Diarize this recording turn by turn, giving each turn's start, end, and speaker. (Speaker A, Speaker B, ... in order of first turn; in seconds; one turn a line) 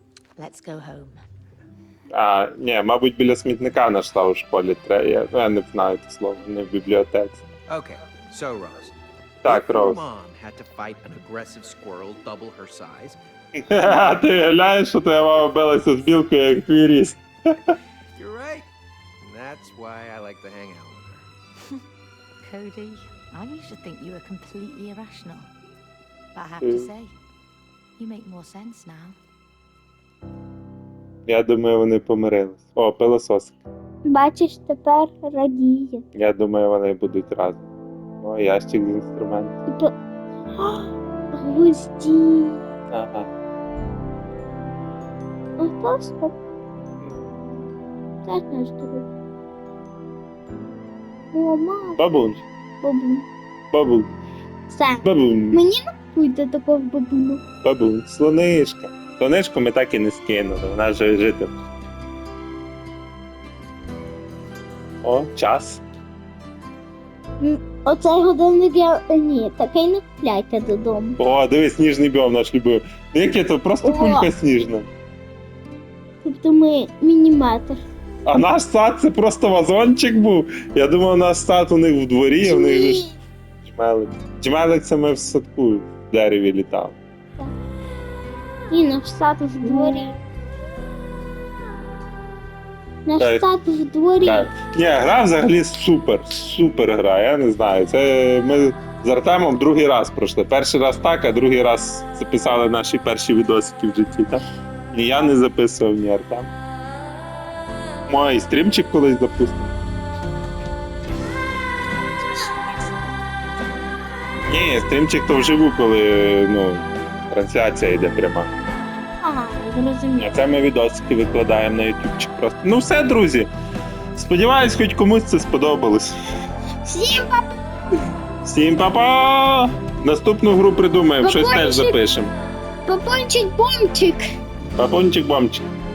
Speaker A: 0.4-1.2
Speaker B: 2.1-7.4
Speaker C: 7.7-8.9
Speaker B: 9.4-10.0
Speaker C: 9.5-13.2
Speaker B: 13.6-17.8
Speaker C: 18.1-18.7
Speaker C: 19.2-21.3
Speaker A: 22.4-25.5
Speaker A: 26.4-27.1
Speaker B: 26.6-26.9
Speaker A: 28.0-29.2
Speaker B: 31.3-33.6
Speaker D: 34.1-36.0
Speaker B: 36.1-37.7
Speaker B: 38.2-39.6
Speaker D: 40.5-42.6
Speaker B: 42.9-43.3
Speaker D: 45.6-46.3
Speaker B: 47.0-47.3
Speaker D: 48.2-49.1
Speaker D: 51.3-52.0
Speaker B: 52.0-52.4
Speaker D: 52.8-53.3
Speaker B: 53.7-54.1
Speaker D: 54.7-57.4
Speaker B: 55.0-55.6
Speaker B: 57.6-61.5
Speaker B: 65.0-65.8
Speaker D: 67.4-71.2
Speaker B: 71.2-74.9
Speaker D: 73.8-74.3
Speaker D: 76.2-77.8
Speaker B: 78.2-83.1
Speaker D: 82.4-83.2
Speaker B: 83.7-87.0
Speaker D: 88.7-90.2
Speaker B: 89.6-90.1
Speaker D: 93.1-94.5
Speaker B: 93.2-93.5
Speaker B: 94.2-106.5
Speaker B: 108.1-109.7
Speaker B: 114.5-118.5
Speaker D: 119.2-120.4
Speaker B: 120.2-123.5
Speaker B: 124.2-126.1
Speaker D: 126.8-127.6
Speaker B: 128.4-132.3
Speaker D: 131.2-132.0
Speaker D: 132.9-134.2
Speaker B: 134.8-135.7